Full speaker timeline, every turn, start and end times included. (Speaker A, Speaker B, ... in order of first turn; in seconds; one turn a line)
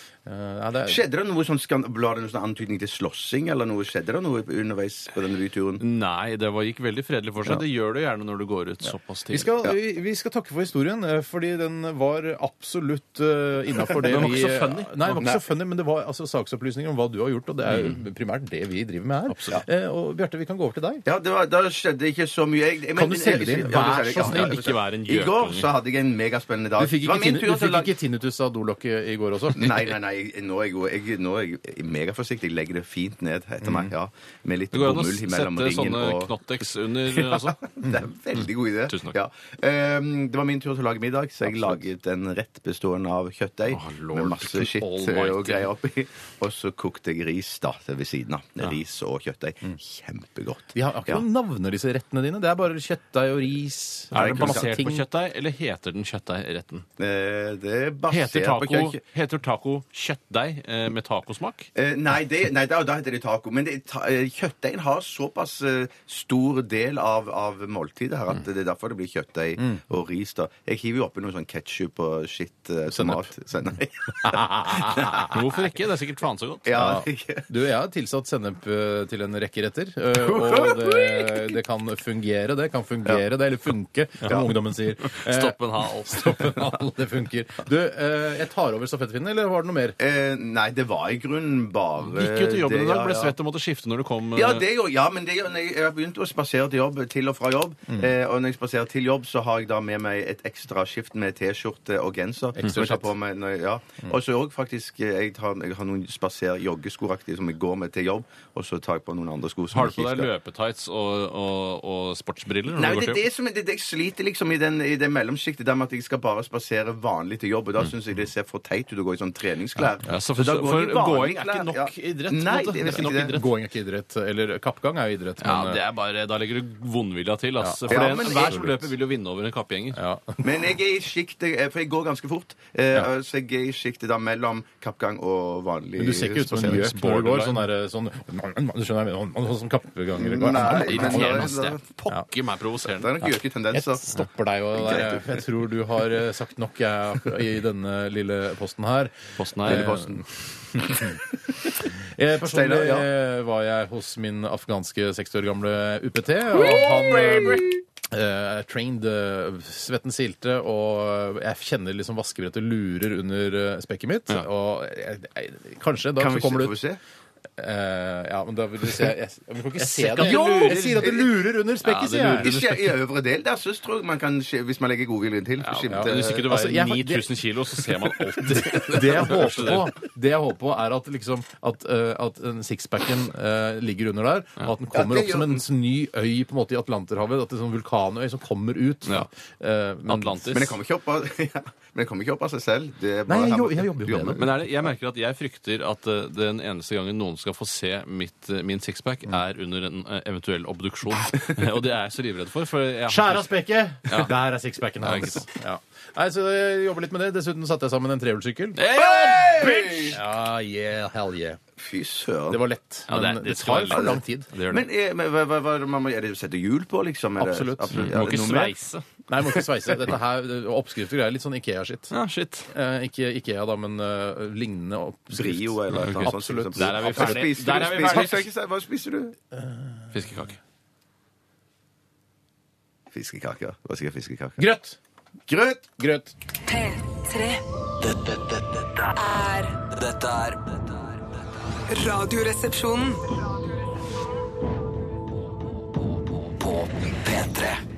Speaker A: 0.2-1.0
Speaker B: 0.8-5.8
Speaker C: 5.8-9.5
Speaker A: 9.3-21.0
Speaker C: 14.0-15.2
Speaker C: 19.3-19.6
Speaker B: 21.0-27.9
Speaker A: 22.9-24.6
Speaker C: 23.7-25.7
Speaker A: 26.8-29.9
Speaker B: 29.5-36.4
Speaker A: 33.6-33.9
Speaker C: 34.7-37.6
Speaker B: 37.1-51.2
Speaker C: 38.9-39.2
Speaker C: 43.7-45.7
Speaker A: 50.7-55.0
Speaker B: 54.1-54.7
Speaker C: 54.1-56.8
Speaker B: 57.0-59.0
Speaker C: 58.1-61.7
Speaker B: 61.7-75.3
Speaker A: 72.9-73.3
Speaker A: 74.2-75.3
Speaker C: 75.3-76.8
Speaker B: 76.6-77.5
Speaker A: 76.7-90.0
Speaker B: 80.1-81.5
Speaker C: 85.0-86.7
Speaker B: 90.0-93.3
Speaker C: 92.0-94.7
Speaker B: 94.3-110.3
Speaker A: 102.6-103.1
Speaker C: 109.7-113.2
Speaker B: 112.7-123.3
Speaker C: 120.0-123.5
Speaker A: 123.2-125.8
Speaker C: 125.4-130.0
Speaker A: 127.6-128.9
Speaker B: 127.9-128.6
Speaker A: 129.9-130.4
Speaker B: 130.4-136.9
Speaker A: 136.0-141.5
Speaker C: 136.6-137.7
Speaker B: 140.1-141.8
Speaker C: 140.6-143.2
Speaker B: 142.8-144.1
Speaker A: 143.7-151.2
Speaker B: 144.7-145.4
Speaker C: 149.4-149.9
Speaker B: 149.6-151.5
Speaker A: 152.1-166.8
Speaker B: 152.4-153.1
Speaker B: 156.5-157.8
Speaker B: 166.2-167.0
Speaker A: 167.6-172.5
Speaker C: 169.8-171.1
Speaker B: 170.2-171.3
Speaker C: 171.8-172.8
Speaker B: 172.4-176.5
Speaker C: 175.6-179.9
Speaker A: 175.9-177.3
Speaker A: 178.5-190.5
Speaker B: 178.6-178.9
Speaker B: 184.9-185.6
Speaker C: 190.1-190.7
Speaker B: 190.5-194.4
Speaker A: 193.3-194.4
Speaker C: 194.3-203.6
Speaker A: 203.1-208.8
Speaker C: 205.0-205.4
Speaker C: 208.8-210.2
Speaker B: 208.9-210.2
Speaker A: 210.1-211.6
Speaker B: 211.8-212.6
Speaker A: 212.5-214.5
Speaker C: 213.1-214.9
Speaker B: 213.9-218.7
Speaker A: 217.4-218.1
Speaker C: 217.9-219.0
Speaker A: 219.3-222.1
Speaker C: 222.1-222.7
Speaker A: 222.7-228.3
Speaker B: 225.3-229.3
Speaker C: 225.9-228.4
Speaker A: 229.5-230.2
Speaker C: 230.1-230.6
Speaker B: 233.1-234.7
Speaker A: 234.6-235.0
Speaker B: 235.5-235.9
Speaker A: 236.0-236.3
Speaker D: 236.7-237.6
Speaker E: 238.0-241.0
Speaker D: 241.9-243.2
Speaker E: 246.5-247.8